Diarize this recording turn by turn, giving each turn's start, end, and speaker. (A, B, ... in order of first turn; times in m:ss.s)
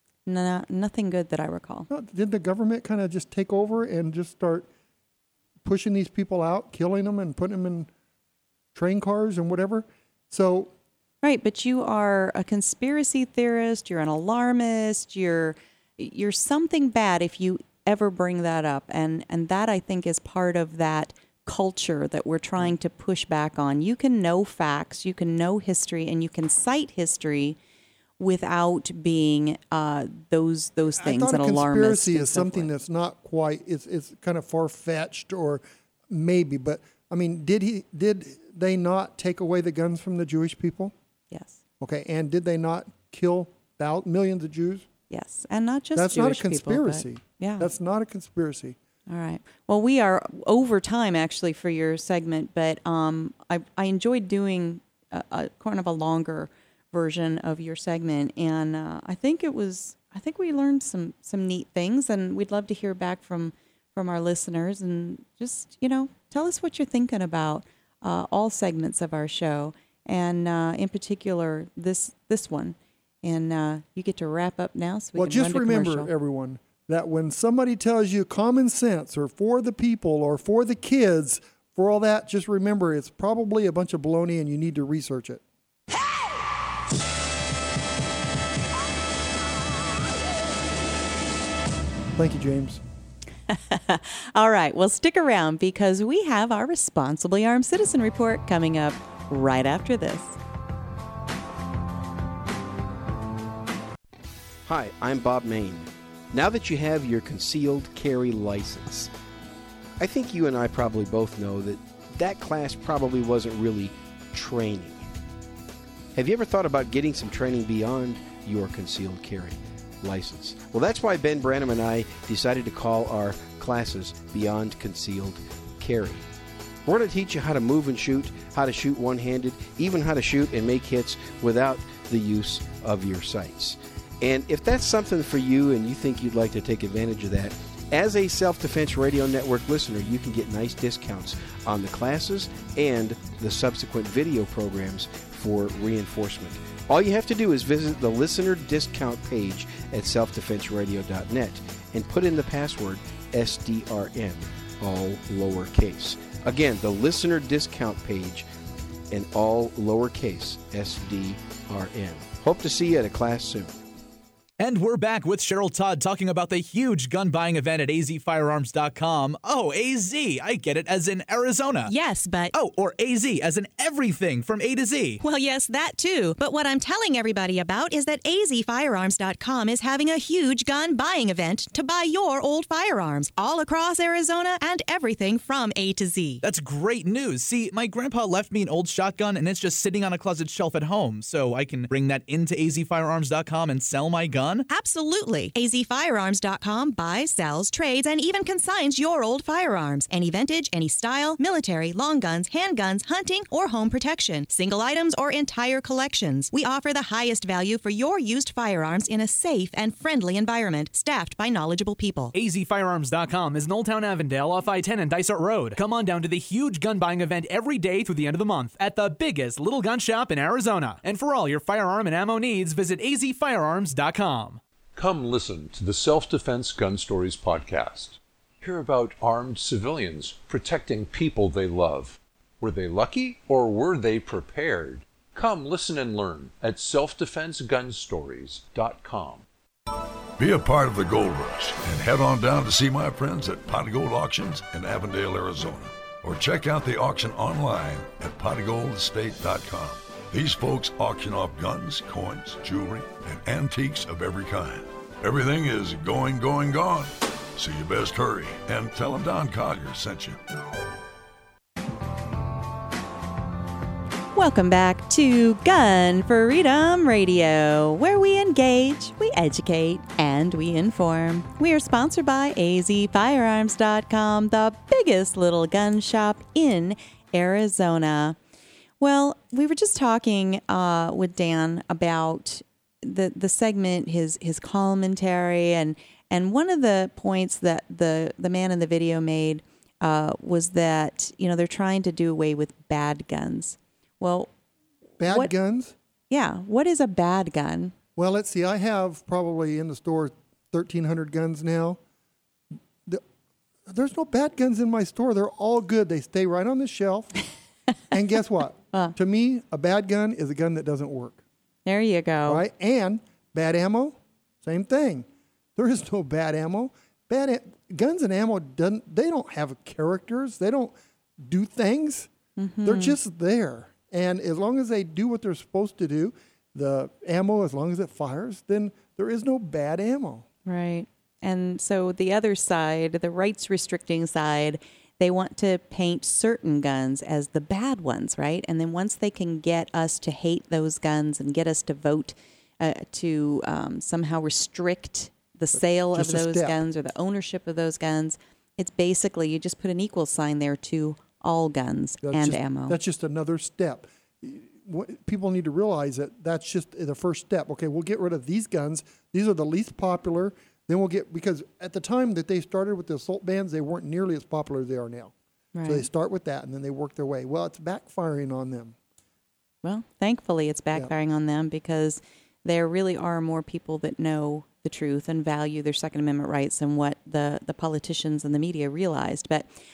0:00.2-0:01.9 A
0:01.9-0:04.7 B
0:05.6-0:07.9 B
0:08.7-0:10.7 B
0:11.2-0:27.6 A
0:28.2-0:32.7 A
0:31.0-0:40.9 B
0:41.3-0:41.6 A
0:41.8-0:44.9 B
0:45.1-0:47.7 A
0:45.9-0:48.8 B
0:49.1-1:16.1 A
1:15.1-1:25.4 B
1:32.1-1:32.8 B
1:33.5-1:40.4 A
1:44.6-1:49.1 C
1:50.0-1:55.0 C
1:56.2-2:06.2 C
2:06.8-2:38.4 C
2:39.1-2:43.8 C
2:44.6-2:51.9 D
2:51.9-2:52.5 E
2:52.5-2:55.2 D
2:55.2-3:06.4 E
3:06.4-3:14.6 D
3:14.7-3:32.3 E
3:32.3-3:44.6 D
3:44.9-3:59.4 F
4:00.4-4:20.4 G
4:24.3-4:38.4 A
4:39.0-4:54.5 A
4:55.2-4:55.9 B
4:55.2-4:55.5 A
4:56.3-4:57.9 A
4:58.2-5:02.0 B
5:03.9-5:07.3 B
5:08.1-5:11.4 B
5:11.8-5:12.6 A
5:12.4-5:22.3 B
5:22.6-5:23.2 A
5:22.8-5:30.4 B
5:30.6-5:53.0 A
5:45.7-5:46.8 B
5:52.2-6:05.3 B
6:05.7-6:06.0 A
6:05.8-6:08.9 B
6:09.8-6:19.7 A